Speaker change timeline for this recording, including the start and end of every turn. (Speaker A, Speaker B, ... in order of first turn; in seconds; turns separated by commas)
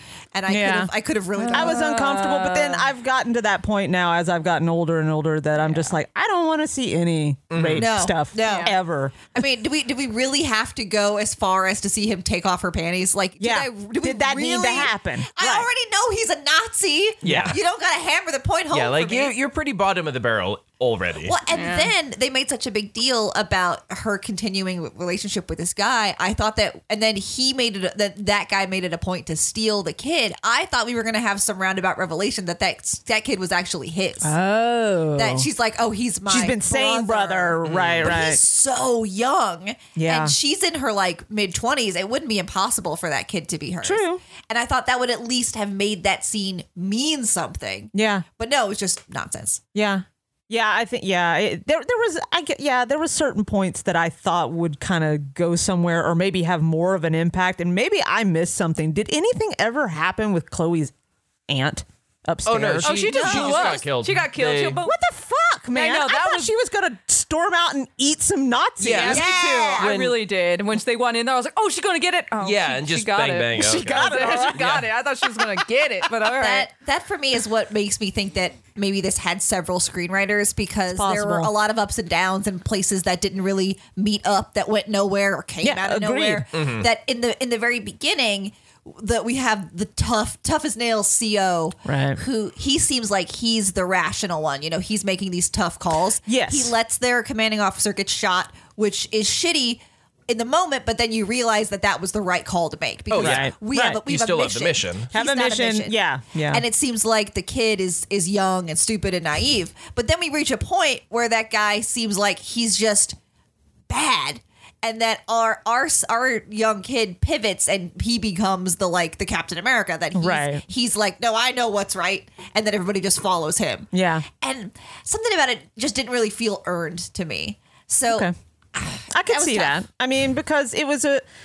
Speaker A: 0.3-1.9, Speaker B: 0.5-0.9, Speaker C: 1.4-2.9, Speaker B: 1.5-9.2, Speaker D: 7.5-7.9, Speaker A: 7.8-8.8, Speaker C: 8.4-8.7, Speaker A: 9.3-19.3, Speaker B: 13.4-15.7, Speaker D: 17.2-17.6, Speaker B: 17.2-17.6, Speaker D: 18.7-21.4, Speaker A: 21.2-34.3, Speaker C: 21.5-21.9, Speaker B: 34.2-35.5, Speaker A: 35.2-49.6, Speaker B: 36.3-38.4, Speaker D: 37.6-38.2, Speaker B: 40.0-40.4, Speaker B: 43.8-44.2, Speaker B: 47.9-48.2, Speaker B: 49.8-60.9, Speaker B: 61.5-62.9, Speaker D: 62.5-64.8, Speaker C: 62.8-65.0, Speaker A: 63.1-63.8, Speaker B: 64.8-69.9, Speaker C: 65.7-66.5, Speaker D: 68.8-70.2, Speaker C: 68.9-76.7, Speaker A: 69.0-69.9, Speaker D: 72.4-74.9, Speaker B: 73.5-74.7, Speaker A: 76.2-105.9, Speaker B: 80.9-81.5, Speaker B: 85.6-86.5, Speaker D: 86.5-86.9, Speaker B: 91.8-92.2, Speaker B: 96.3-96.8, Speaker D: 103.1-105.1, Speaker B: 103.1-104.0, Speaker B: 105.1-106.6, Speaker A: 106.5-113.2, Speaker A: 113.9-129.8, Speaker B: 120.2-120.6, Speaker B: 123.9-124.2, Speaker B: 128.1-128.3, Speaker B: 129.1-131.2